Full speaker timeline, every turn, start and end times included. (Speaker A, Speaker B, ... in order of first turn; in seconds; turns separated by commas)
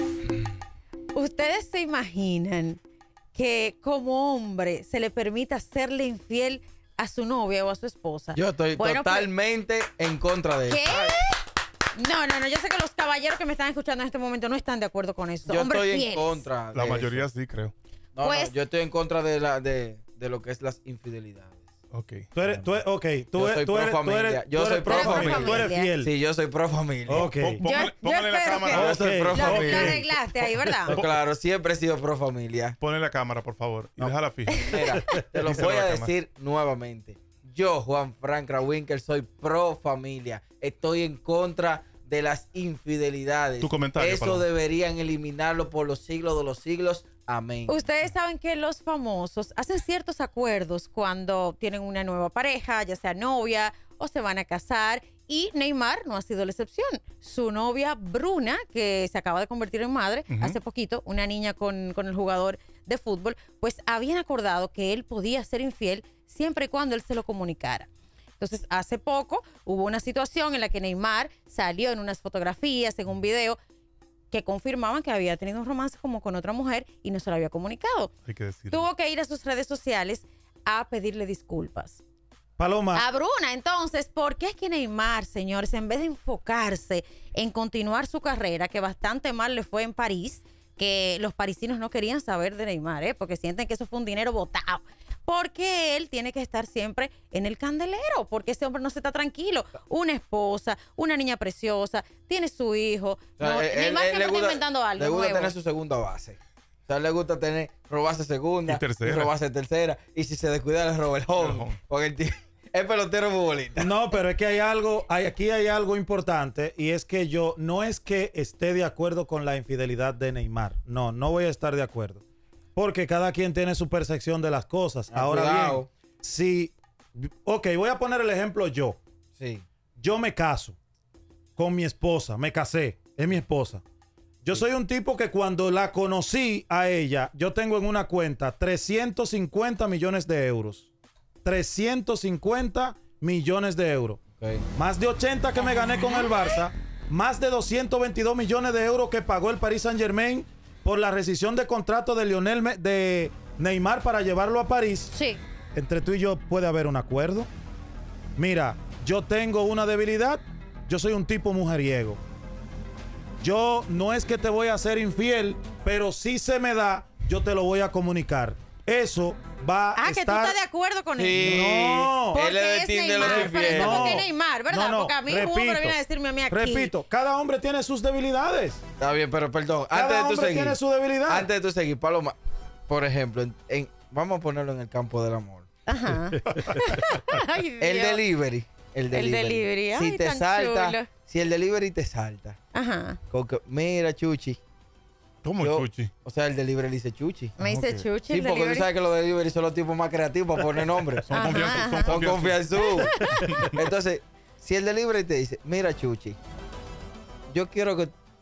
Speaker A: 1.1-2.8, Speaker A: 3.3-9.3, Speaker B: 8.3-11.2, Speaker A: 10.7-11.4, Speaker A: 11.9-16.5, Speaker B: 15.5-17.3, Speaker C: 16.7-17.7, Speaker B: 18.1-21.6, Speaker A: 18.2-18.6, Speaker C: 21.9-22.3, Speaker D: 22.3-26.1, Speaker B: 23.4-27.3, Speaker A: 24.9-25.9, Speaker D: 27.1-27.6, Speaker C: 27.1-29.9, Speaker A: 27.6-31.0, Speaker B: 28.7-30.1, Speaker D: 28.7-29.9, Speaker B: 30.9-32.8, Speaker C: 30.9-31.2, Speaker C: 32.8-36.2, Speaker A: 34.5-34.8, Speaker B: 34.7-47.8, Speaker C: 43.6-44.5, Speaker A: 47.7-67.9, Speaker C: 60.3-60.6, Speaker A: 68.4-73.6, Speaker A: 74.3-78.1, Speaker C: 78.3-78.9, Speaker A: 78.7-82.0, Speaker D: 82.6-83.0, Speaker A: 82.9-105.6, Speaker B: 103.4-113.9, Speaker C: 108.7-109.3, Speaker C: 111.4-111.8, Speaker D: 113.8-122.2, Speaker D: 122.8-129.0, Speaker B: 125.1-125.9, Speaker B: 129.4-129.7, Speaker D: 130.0-130.8, Speaker D: 131.6-133.8, Speaker D: 134.4-140.9, Speaker D: 141.4-144.2, Speaker B: 144.4-144.7, Speaker D: 144.7-155.1, Speaker A: 145.6-146.6, Speaker A: 155.1-155.4, Speaker D: 155.7-157.5, Speaker D: 158.4-162.2, Speaker D: 163.4-170.6, Speaker A: 169.9-171.6, Speaker B: 171.2-174.3, Speaker D: 171.3-172.4, Speaker A: 172.3-176.9, Speaker D: 173.2-176.0, Speaker D: 176.5-178.8, Speaker B: 179.0-182.4, Speaker D: 179.9-181.5, Speaker B: 182.9-185.7, Speaker A: 185.9-188.2, Speaker B: 187.8-192.6, Speaker A: 189.1-191.1, Speaker A: 192.7-193.2, Speaker B: 193.3-194.6, Speaker C: 195.4-196.1, Speaker B: 195.6-197.6, Speaker A: 197.6-198.9, Speaker C: 197.6-198.0, Speaker B: 198.3-203.1, Speaker C: 201.2-203.8, Speaker A: 201.3-202.2, Speaker A: 202.7-203.7, Speaker B: 203.7-206.4, Speaker B: 207.5-208.1